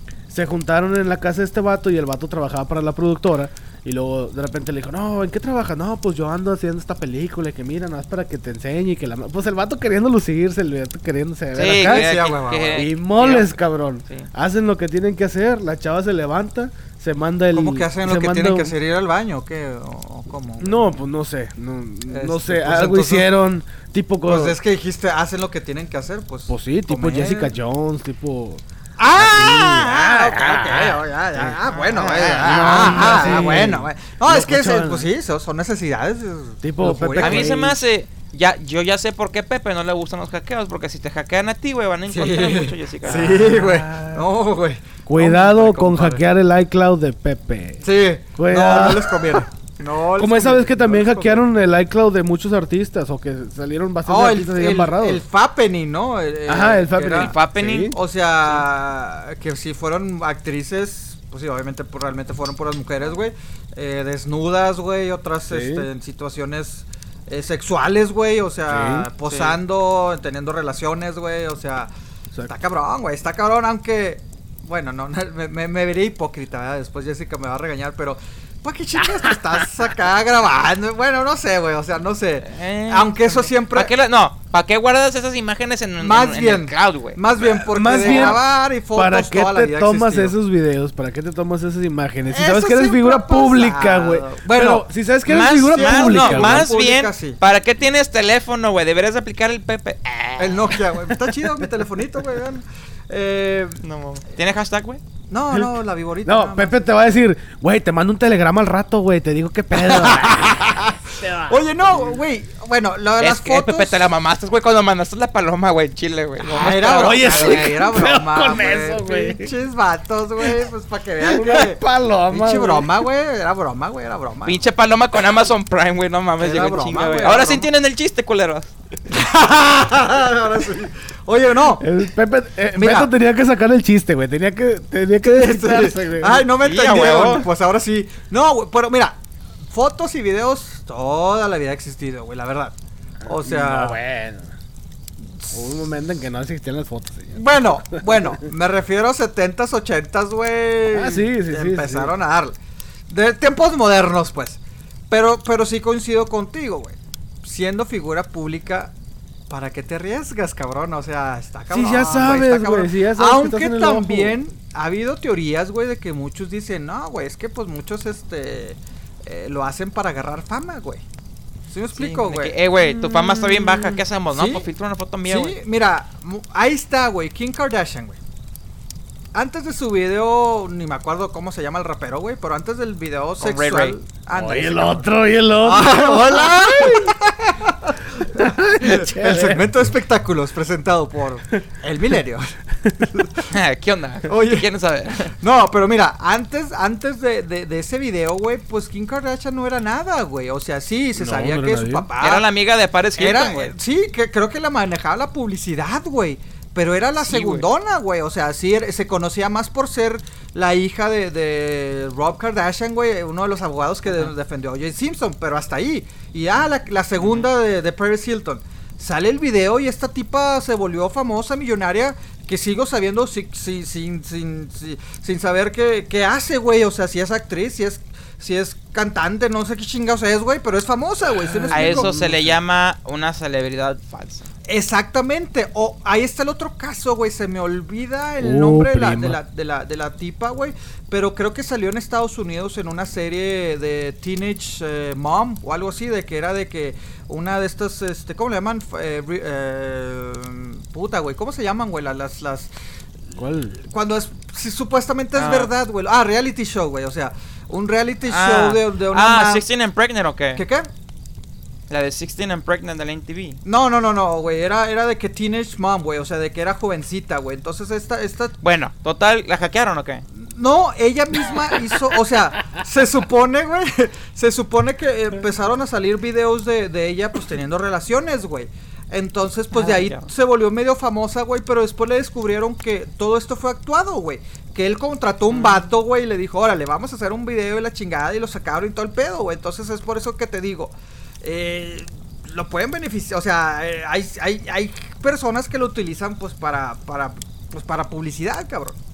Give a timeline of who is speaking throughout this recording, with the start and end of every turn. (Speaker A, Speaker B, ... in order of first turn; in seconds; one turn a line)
Speaker A: 0.3-12.1
Speaker B: 11.5-13.6
Speaker C: 11.8-12.9
Speaker A: 12.8-18.7
Speaker C: 17.5-20.9
Speaker A: 20.6-24.6
Speaker C: 22.1-23.3
Speaker C: 24.2-27.5
Speaker A: 26.5-28.6
Speaker C: 29.0-37.6
Speaker A: 29.1-31.6
Speaker B: 31.6-33.5
Speaker A: 32.2-35.1
Speaker A: 36.6-37.8
Speaker B: 37.2-43.5
Speaker C: 42.1-46.2
Speaker A: 43.1-44.3
Speaker A: 45.0-47.8
Speaker C: 47.8-51.4
Speaker A: 48.4-49.4
Speaker A: 50.2-55.2
Speaker C: 54.1-57.4
Speaker A: 56.5-57.9
Speaker B: 57.1-57.9
Speaker C: 57.9-71.9
Speaker A: 65.5-65.9
Speaker A: 68.7-69.1
Speaker B: 69.2-69.5
Speaker C: 72.5-83.9
Speaker B: 82.4-87.2
Speaker C: 86.0-90.3
Speaker A: 87.7-96.7
Speaker B: 88.0-88.4
Speaker C: 92.3-94.9
Speaker B: 95.3-100.8
Speaker C: 95.4-97.4
Speaker C: 100.4-103.8
Speaker B: 103.8-105.0
Speaker C: 105.3-106.8
Speaker A: 106.2-112.1
Speaker C: 109.8-114.1
Speaker B: 113.2-117.9
Speaker C: 116.4-124.6
Speaker A: 117.0-119.5
Speaker A: 121.2-122.9
Speaker B: 124.4-128.7
Speaker C: 126.4-127.7
Speaker C: 129.1-131.9
Speaker A: 131.8-136.5
Speaker C: 132.7-133.1
Speaker C: 135.3-139.2
Speaker B: 136.6-137.5
Speaker C: 139.7-142.7
Speaker A: 143.2-144.5
Speaker C: 143.3-144.0
Speaker C: 145.3-145.9
Speaker A: 145.5-148.4
Speaker C: 147.3-152.5
Speaker A: 150.9-152.1
Speaker C: 153.1-154.6
Speaker C: 155.1-158.9
Speaker C: 159.5-171.0
Speaker A: 161.7-164.4
Speaker C: 171.7-174.7
Speaker B: 171.9-175.6
Speaker C: 175.2-178.2
Speaker C: 179.3-193.5
Speaker B: 183.4-184.0
Speaker A: 184.3-187.3
Speaker A: 188.3-189.6
Speaker A: 192.8-193.1
Speaker B: 193.5-195.3
Speaker C: 194.3-194.7
Speaker C: 195.4-202.5
Speaker A: 201.2-202.1
Speaker B: 202.2-203.8
Speaker C: 203.2-232.1
Speaker B: 207.2-207.7
Speaker B: 217.2-217.5
Speaker A: 231.4-232.6
Speaker B: 231.7-234.4
Speaker C: 234.7-252.7
Speaker A: 238.4-239.4
Speaker A: 253.3-253.8
Speaker C: 253.8-259.6
Speaker B: 255.3-255.7
Speaker B: 258.3-260.6
Speaker C: 260.6-260.9
Speaker B: 261.9-263.6
Speaker C: 263.6-268.6
Speaker B: 268.6-270.2
Speaker C: 270.3-299.0
Speaker B: 279.7-280.3
Speaker B: 285.5-285.9